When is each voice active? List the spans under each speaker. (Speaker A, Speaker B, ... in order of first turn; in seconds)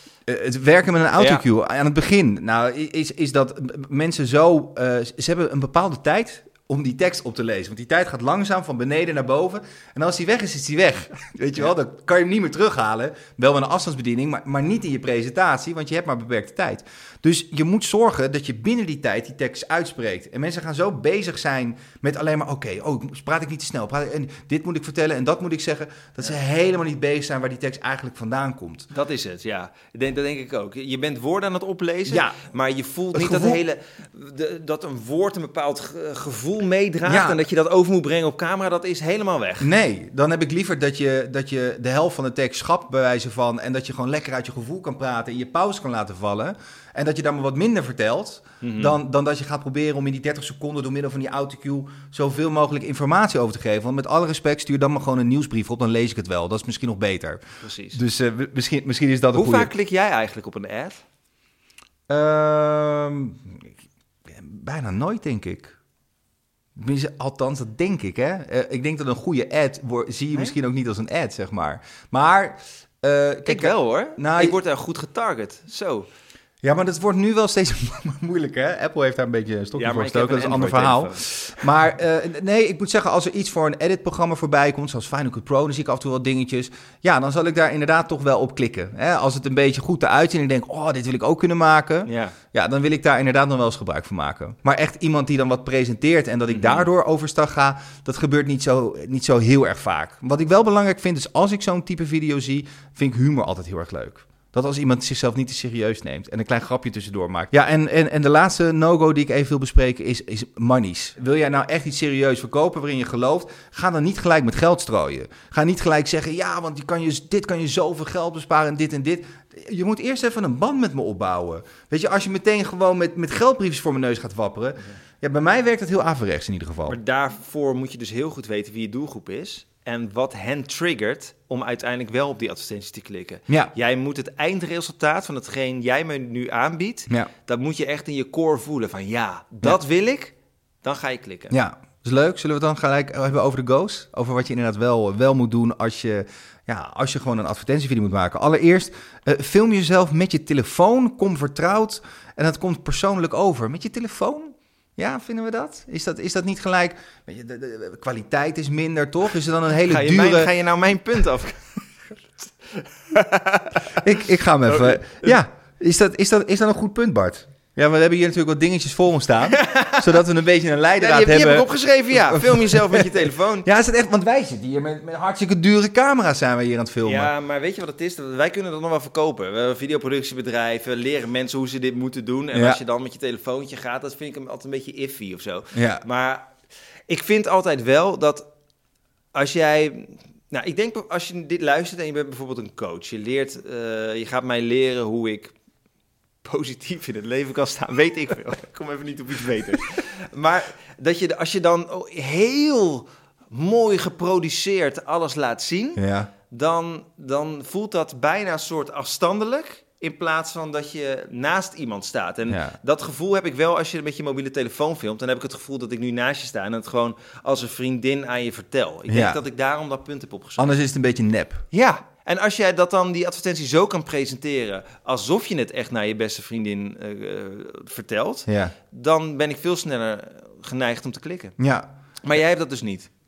Speaker A: 0.3-28.9, 32.1-32.4, 33.1-33.6, 37.0-37.4, 39.6-57.4, 57.9-59.7, 62.1-63.7, 64.3-65.7, 66.8-74.6, 76.6-127.0, 141.5-160.5, 163.9-177.3, 182.5-182.8, 185.7-186.0, 205.9-206.3, 212.5-212.8, 219.1-219.4, 220.6-221.6, 228.5-228.7, 231.6-231.9
Speaker B: 1.2-1.4, 28.9-39.7, 48.6-48.9, 57.6-58.0, 59.3-61.0, 73.5-76.1, 79.8-81.3, 92.1-92.3, 96.5-96.9, 126.9-141.5, 159.8-161.8, 162.4-164.1, 164.7-165.3, 169.5-170.2, 171.0-173.7, 177.0-186.5, 187.1-188.5, 189.3-195.5, 196.4-220.7, 221.7-231.5, 232.2-233.1